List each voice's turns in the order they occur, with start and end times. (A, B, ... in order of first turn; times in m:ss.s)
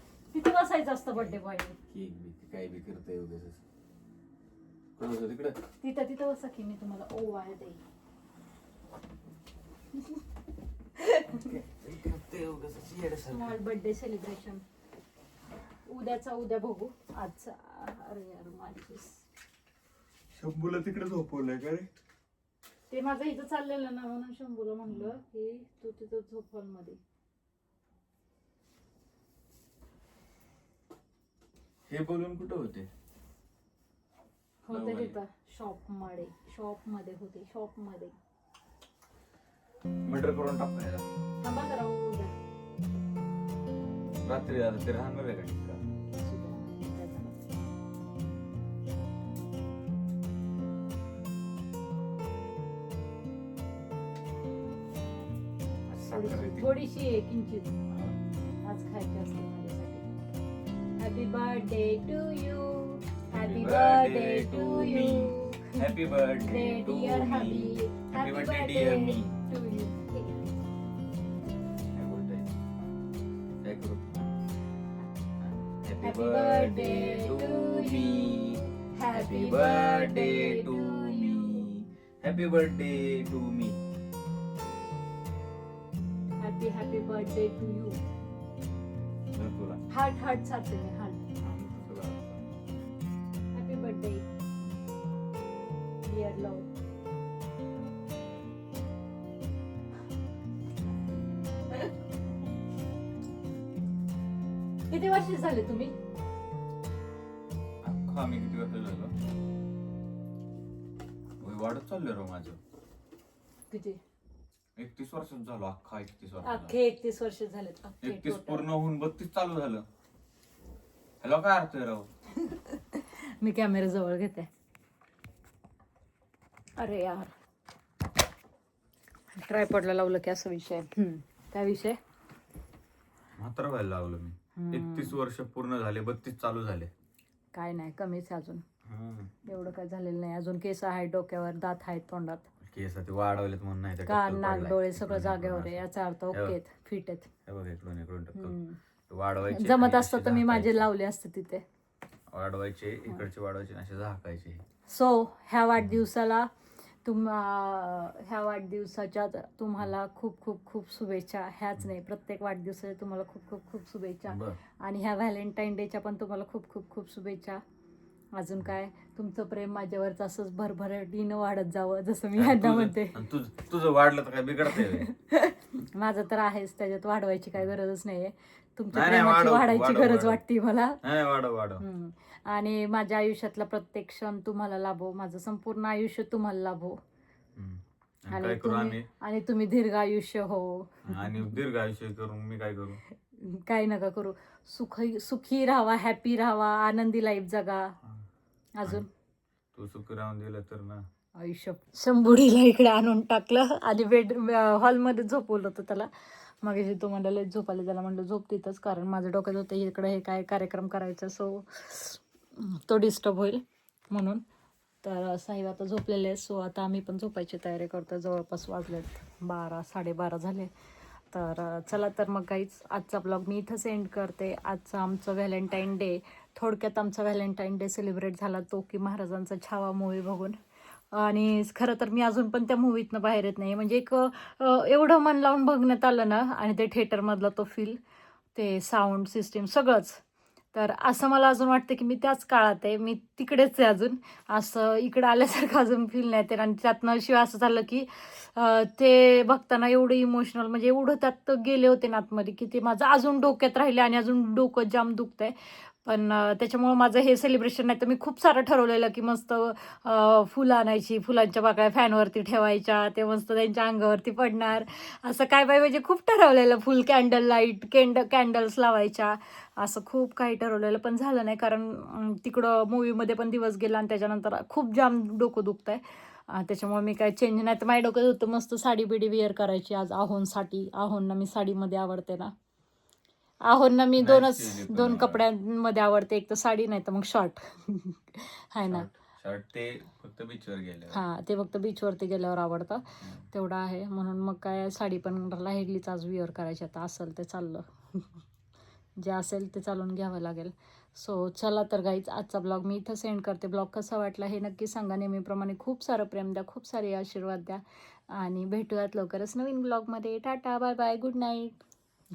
0:00.3-0:01.8 A
0:01.9-0:03.6 B
0:05.0-0:05.6 B
0:05.8-0:07.8 A
0:11.0-0:11.4 A
0:11.3-0:13.6 B
0:13.2-0:14.6 A
0:15.9-0:19.2 A
0:20.4-0:21.9 B
0:22.9-0:27.0 A
0:24.9-0:25.1 B
0:31.9-0:32.9 B
0:34.6-0:38.2 A
0:34.7-0:35.2 B
0:40.1-0:41.1 B
0:41.4-0:42.3 A
0:44.2-0:45.8 B
0:46.1-0:47.4 A
0:55.9-0:56.8 B
0:56.1-0:57.7 A
0:57.9-0:58.2 B
0:58.6-1:00.1 A
1:01.0-1:05.8 A
1:03.3-1:09.3 B
1:06.4-1:10.4 A
1:11.9-1:12.5 B
1:13.6-1:14.4 B
1:15.4-1:23.8 B
1:16.0-1:21.7 A
1:26.4-1:28.0 A
1:29.3-1:29.8 B
1:29.9-1:31.2 A
1:31.4-1:32.4 B
1:33.5-1:34.2 A
1:36.0-1:36.7 A
1:44.9-1:46.0 A
1:47.8-1:49.1 B
1:51.4-1:52.6 B
1:53.7-1:54.0 A
1:54.8-1:56.8 B
1:56.4-1:58.7 A
1:58.0-1:59.8 B
2:01.2-2:02.1 B
2:02.4-2:04.5 A
2:06.8-2:07.3 A
2:09.4-2:12.0 A
2:13.4-2:16.9 B
2:14.6-2:15.2 A
2:17.5-2:18.6 A
2:18.8-2:19.3 B
2:19.4-2:22.5 A
2:22.6-2:26.6 B
2:24.1-2:27.3 A
2:27.5-2:28.6 B
2:28.4-2:28.8 A
2:29.1-2:30.9 B
2:29.5-2:31.6 A
2:32.3-2:34.6 B
2:34.9-2:36.5 A
2:35.8-2:36.0 B
2:37.0-2:47.6 A
2:44.3-2:44.6 B
2:48.4-2:53.2 A
2:52.4-2:55.1 B
2:54.7-3:01.0 A
2:58.9-3:00.4 B
3:01.0-3:01.8 B
3:01.8-3:07.0 A
3:07.6-3:09.1 B
3:08.3-3:11.5 A
3:11.1-3:13.0 B
3:13.4-3:18.0 A
3:18.8-3:19.1 A
3:19.8-3:21.0 B
3:21.4-3:26.1 A
3:26.6-3:34.4 A
3:35.0-3:40.7 A
3:41.3-3:50.6 A
3:51.1-3:58.0 A
3:58.5-4:00.2 A
4:00.7-4:42.5 A
4:43.6-4:49.1 A
4:44.2-4:45.4 B
4:48.9-4:51.2 B
4:51.1-4:58.3 A
4:59.2-5:11.8 A